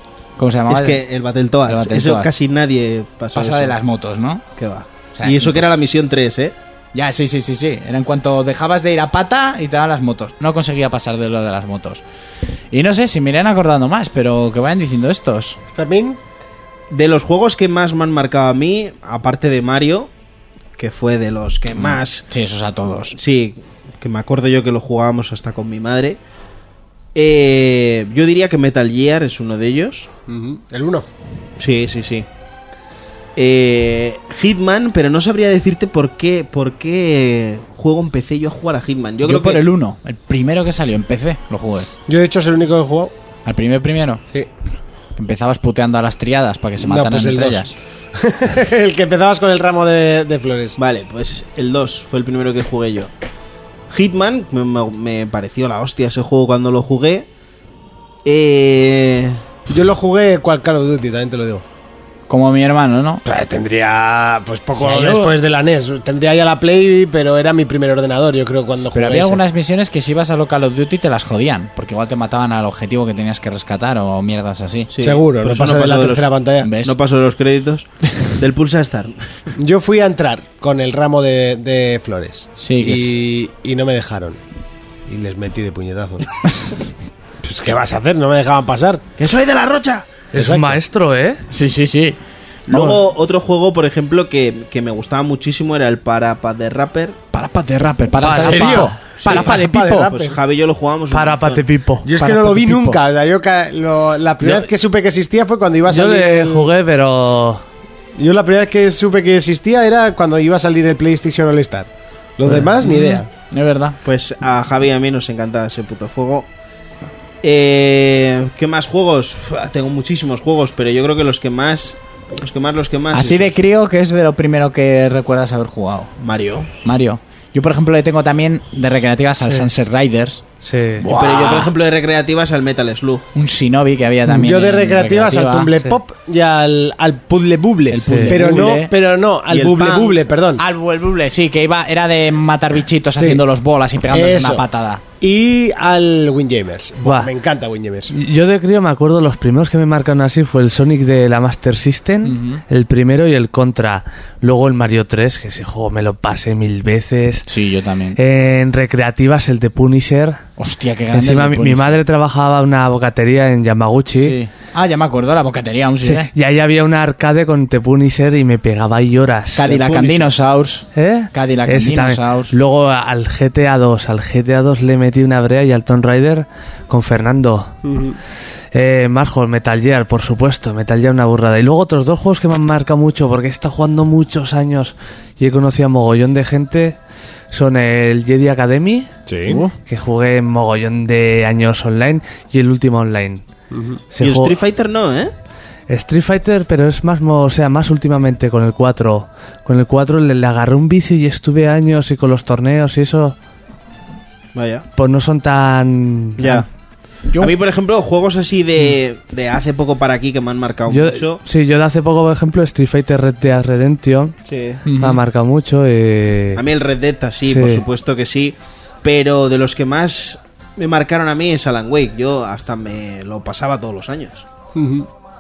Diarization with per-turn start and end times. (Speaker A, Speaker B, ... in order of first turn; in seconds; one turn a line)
Speaker A: 0.4-1.0
Speaker B: 0.7-3.8
Speaker A: 1.7-2.3
Speaker A: 3.4-4.4
Speaker B: 4.6-6.5
Speaker A: 5.2-5.7
Speaker A: 6.9-12.0
Speaker A: 12.7-15.6
Speaker C: 15.7-16.2
Speaker B: 16.9-20.1
Speaker B: 20.8-22.3
Speaker A: 21.8-23.2
Speaker B: 23.2-26.2
Speaker B: 27.1-30.1
Speaker C: 30.3-31.1
Speaker B: 31.6-32.3
Speaker B: 33.4-39.6
Speaker A: 39.2-41.9
Speaker C: 42.1-43.1
Speaker A: 43.5-44.2
Speaker A: 45.2-47.7
Speaker C: 46.8-50.8
Speaker B: 50.8-53.1
Speaker B: 53.9-57.3
Speaker B: 58.2-59.4
Speaker C: 59.7-61.6
Speaker A: 62.3-63.2
Speaker C: 63.2-69.4
Speaker A: 64.8-65.3
Speaker A: 68.9-74.9
Speaker B: 74.9-76.3
Speaker C: 75.0-76.7
Speaker A: 76.6-76.9
Speaker B: 76.8-79.2
Speaker C: 79.6-84.4
Speaker A: 82.6-83.1
Speaker C: 85.1-86.3
Speaker C: 87.4-89.0
Speaker B: 89.2-90.2
Speaker D: 90.3-91.4
Speaker C: 90.3-90.8
Speaker A: 91.5-93.0
Speaker B: 92.7-97.2
Speaker A: 97.3-100.1
Speaker D: 98.2-99.0
Speaker C: 98.3-100.4
Speaker B: 99.2-101.6
Speaker D: 101.1-102.1
Speaker C: 102.0-106.7
Speaker A: 102.2-103.0
Speaker D: 105.9-107.6
Speaker C: 108.2-113.3
Speaker A: 112.5-114.0
Speaker B: 114.0-116.5
Speaker B: 117.4-123.6
Speaker A: 123.1-126.1
Speaker B: 126.2-126.7
Speaker A: 126.8-130.4
Speaker D: 130.6-131.1
Speaker A: 131.0-131.7
Speaker B: 131.2-133.3
Speaker A: 133.3-135.7
Speaker C: 134.3-140.6
Speaker A: 137.9-138.9
Speaker D: 138.1-138.4
Speaker B: 139.5-140.2
Speaker A: 140.6-145.0
Speaker C: 143.2-143.4
Speaker C: 144.1-144.7
Speaker C: 145.2-148.1
Speaker D: 148.1-157.4
Speaker A: 152.2-152.6
Speaker A: 157.5-158.2
Speaker D: 158.2-160.4
Speaker A: 160.6-162.0
Speaker D: 161.1-164.4
Speaker A: 164.2-166.3
Speaker D: 166.0-169.7
Speaker A: 169.6-172.6
Speaker B: 169.7-170.3
Speaker D: 170.9-177.7
Speaker C: 177.8-178.2
Speaker D: 178.7-187.0
Speaker D: 187.5-189.1
Speaker C: 189.3-189.7
Speaker D: 189.8-193.4
Speaker C: 193.7-194.0
Speaker D: 194.1-194.6
Speaker B: 194.2-195.3
Speaker D: 195.9-203.3
Speaker B: 204.6-204.8
Speaker D: 205.0-206.5
Speaker B: 206.4-206.7
Speaker B: 207.4-211.4
Speaker D: 210.9-214.3
Speaker B: 214.5-214.8
Speaker A: 214.8-215.2
Speaker D: 215.0-216.6
Speaker B: 216.6-224.5
Speaker D: 217.5-217.8
Speaker C: 224.8-225.1